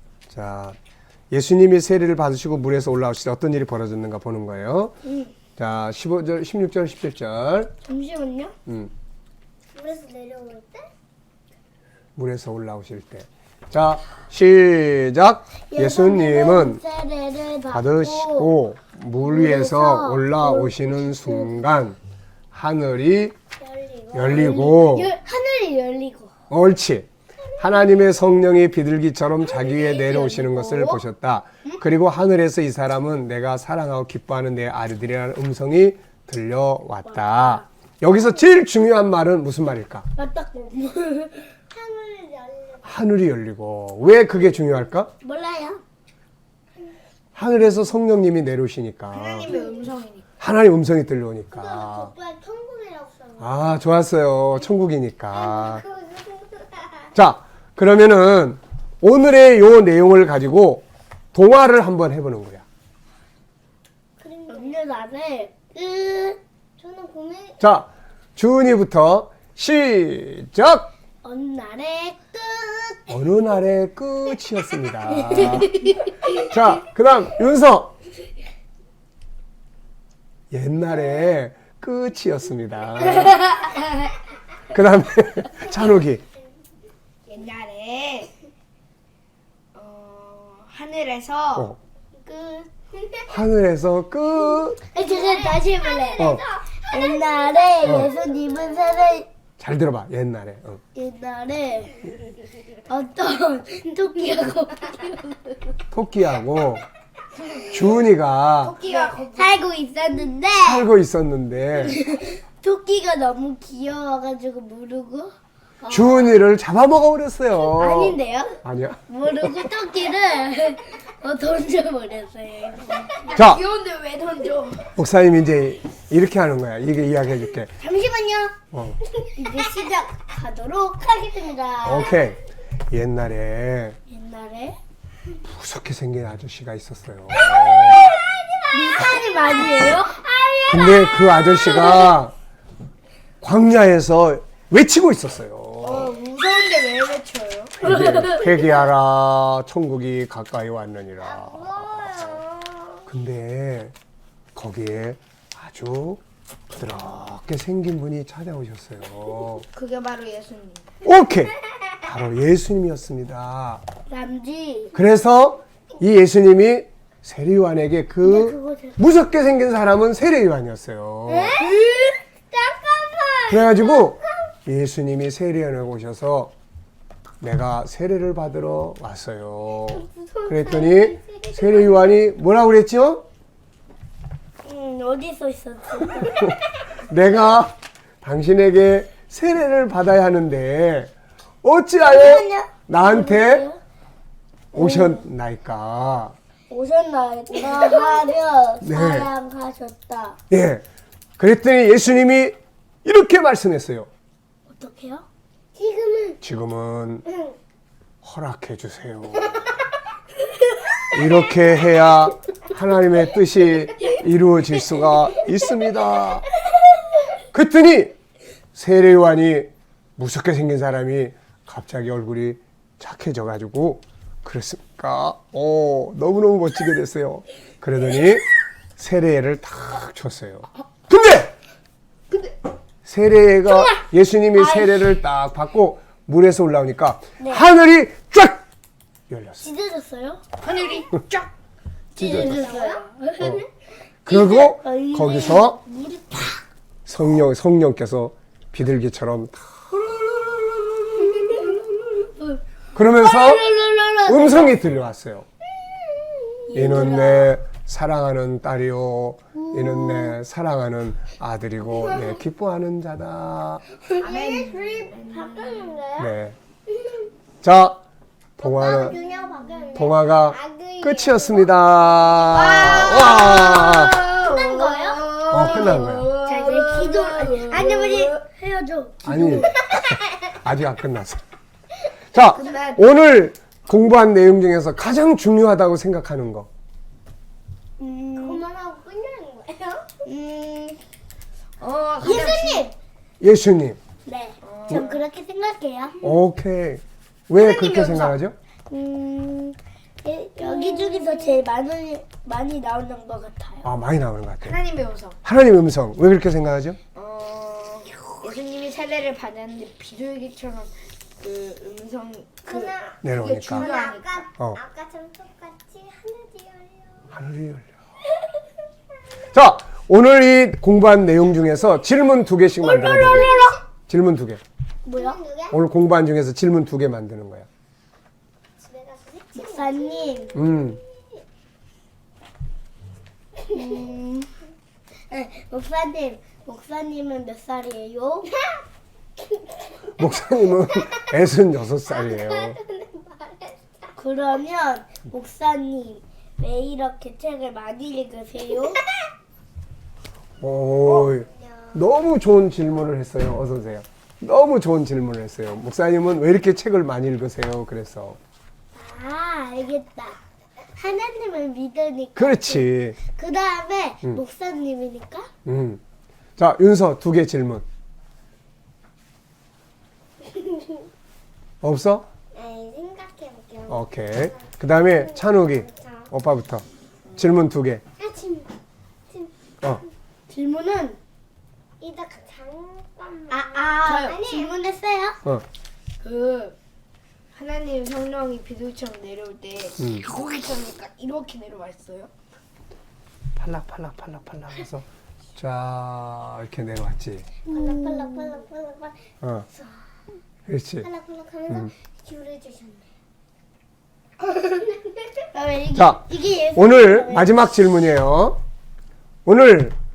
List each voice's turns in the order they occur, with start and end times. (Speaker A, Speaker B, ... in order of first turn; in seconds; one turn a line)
Speaker A: 0.3-0.8
Speaker A: 1.3-5.0
Speaker B: 5.0-5.3
Speaker A: 5.6-7.7
Speaker B: 7.8-8.6
Speaker A: 8.7-8.9
Speaker C: 9.7-10.9
Speaker A: 12.2-16.8
Speaker B: 15.7-18.5
Speaker A: 17.7-22.0
Speaker B: 19.2-21.6
Speaker A: 22.5-23.4
Speaker B: 23.6-26.3
Speaker A: 24.1-25.1
Speaker A: 26.5-40.1
Speaker B: 29.6-31.0
Speaker B: 37.1-37.6
Speaker B: 40.2-41.5
Speaker C: 41.7-43.1
Speaker A: 42.8-45.1
Speaker B: 45.2-45.8
Speaker A: 47.4-49.5
Speaker D: 49.1-50.3
Speaker C: 49.5-49.9
Speaker A: 50.4-52.1
Speaker C: 51.5-53.5
Speaker A: 53.4-55.8
Speaker C: 55.3-57.1
Speaker A: 57.1-62.6
Speaker C: 64.2-64.8
Speaker B: 64.5-66.4
Speaker C: 66.8-67.6
Speaker A: 67.6-70.9
Speaker B: 71.2-73.1
Speaker A: 73.1-75.9
Speaker B: 75.2-76.5
Speaker A: 76.4-78.0
Speaker A: 80.5-83.5
Speaker A: 84.7-86.2
Speaker D: 87.3-88.3
Speaker D: 89.7-91.7
Speaker C: 92.3-93.3
Speaker A: 93.3-94.8
Speaker B: 94.9-99.3
Speaker C: 95.0-99.2
Speaker A: 97.8-98.1
Speaker A: 99.6-100.8
Speaker B: 101.0-102.1
Speaker B: 102.9-105.6
Speaker A: 105.9-106.8
Speaker A: 107.7-108.8
Speaker D: 108.6-109.6
Speaker B: 108.9-110.9
Speaker A: 110.6-112.0
Speaker B: 111.8-116.4
Speaker A: 115.9-119.7
Speaker B: 117.6-123.4
Speaker D: 123.2-124.9
Speaker A: 123.3-123.6
Speaker A: 125.0-127.7
Speaker B: 127.8-128.6
Speaker A: 128.7-129.0
Speaker B: 129.4-132.3
Speaker A: 131.8-134.0
Speaker B: 134.1-134.8
Speaker A: 135.4-138.1
Speaker C: 137.4-139.7
Speaker B: 138.7-140.2
Speaker C: 140.2-141.8
Speaker A: 140.7-142.3
Speaker B: 140.8-142.1
Speaker A: 143.4-146.1
Speaker D: 145.8-147.9
Speaker A: 147.8-152.4
Speaker C: 151.2-153.1
Speaker A: 153.1-153.9
Speaker A: 154.6-159.7
Speaker D: 159.7-160.9
Speaker A: 161.0-163.8
Speaker B: 164.1-164.9
Speaker A: 164.9-171.5
Speaker B: 168.2-169.1
Speaker B: 171.3-172.1
Speaker C: 172.5-174.5
Speaker A: 173.5-176.5
Speaker A: 177.4-183.2
Speaker C: 179.9-182.2
Speaker B: 184.6-186.6
Speaker A: 186.3-191.1
Speaker A: 191.6-193.7
Speaker B: 192.1-193.8
Speaker A: 194.7-196.4
Speaker B: 194.7-195.2
Speaker B: 196.7-200.4
Speaker A: 198.8-199.3
Speaker A: 200.5-200.8
Speaker A: 201.4-204.1
Speaker B: 204.7-205.2
Speaker C: 205.8-206.4
Speaker A: 206.4-207.2
Speaker A: 208.2-209.7
Speaker A: 211.1-216.4
Speaker A: 217.5-218.2
Speaker A: 218.8-228.4
Speaker A: 229.0-231.6
Speaker A: 233.1-238.6
Speaker B: 233.7-234.0
Speaker B: 234.6-235.2
Speaker B: 237.4-237.7
Speaker A: 239.3-239.7
Speaker B: 239.6-240.4
Speaker D: 240.6-241.5
Speaker A: 242.2-242.6
Speaker B: 242.2-243.7
Speaker C: 242.2-243.0
Speaker D: 242.3-243.0
Speaker A: 244.3-245.8
Speaker B: 244.3-246.6
Speaker A: 247.1-249.9
Speaker B: 249.9-252.6
Speaker A: 252.9-253.7
Speaker B: 253.2-254.8
Speaker A: 254.3-255.5
Speaker B: 256.7-257.5
Speaker A: 256.7-263.8
Speaker D: 256.9-257.2
Speaker B: 259.6-260.4
Speaker D: 264.2-266.0
Speaker C: 264.2-266.3
Speaker A: 266.2-266.6
Speaker A: 267.6-268.0
Speaker A: 268.6-269.2
Speaker B: 268.6-270.0
Speaker C: 268.7-271.7
Speaker A: 269.9-274.1
Speaker D: 272.5-278.4
Speaker B: 272.6-279.9
Speaker A: 275.5-276.3
Speaker A: 279.2-281.4
Speaker A: 282.3-286.7
Speaker D: 282.5-283.1
Speaker B: 288.0-288.6
Speaker C: 288.4-290.1
Speaker B: 290.3-291.0
Speaker D: 291.8-292.9
Speaker B: 292.2-292.9
Speaker A: 293.4-294.0
Speaker B: 294.3-296.2
Speaker D: 294.6-295.2
Speaker A: 296.2-298.6
Speaker D: 297.6-298.4
Speaker B: 298.9-303.9
Speaker C: 300.6-301.6
Speaker A: 303.8-304.8
Speaker D: 304.6-305.4
Speaker A: 305.4-307.0
Speaker D: 307.1-313.0
Speaker C: 312.6-317.4
Speaker A: 313.2-313.9
Speaker D: 313.7-314.5
Speaker A: 317.3-317.9
Speaker A: 319.5-323.5
Speaker C: 322.8-323.8
Speaker D: 323.2-323.5
Speaker B: 323.3-323.7
Speaker A: 324.1-324.6
Speaker B: 325.1-325.4
Speaker C: 325.1-325.8
Speaker A: 325.7-327.7
Speaker C: 328.8-331.4
Speaker B: 329.5-330.6
Speaker A: 330.5-331.0
Speaker C: 333.7-334.0
Speaker B: 333.7-334.5
Speaker B: 335.3-338.5
Speaker C: 338.5-338.8
Speaker C: 339.5-340.1
Speaker A: 340.2-342.8
Speaker C: 340.9-341.4
Speaker C: 342.1-344.2
Speaker B: 344.2-349.0
Speaker A: 350.6-358.4
Speaker C: 351.1-352.1
Speaker B: 358.9-360.4
Speaker B: 360.9-365.5
Speaker A: 362.4-363.2
Speaker A: 365.6-366.0
Speaker A: 366.6-367.9
Speaker A: 371.8-372.3
Speaker C: 372.5-376.3
Speaker A: 373.9-376.9
Speaker A: 377.4-378.0
Speaker C: 378.2-378.7
Speaker B: 380.5-381.2
Speaker C: 382.0-384.8
Speaker B: 383.5-385.4
Speaker D: 384.1-384.4
Speaker D: 386.2-386.8
Speaker D: 387.5-392.3
Speaker A: 390.0-390.2
Speaker A: 393.6-397.5
Speaker B: 397.7-398.7
Speaker C: 397.7-399.9
Speaker A: 399.4-399.7
Speaker A: 400.7-401.1
Speaker C: 401.0-403.1
Speaker B: 405.5-407.6
Speaker A: 405.9-408.6
Speaker A: 409.4-410.0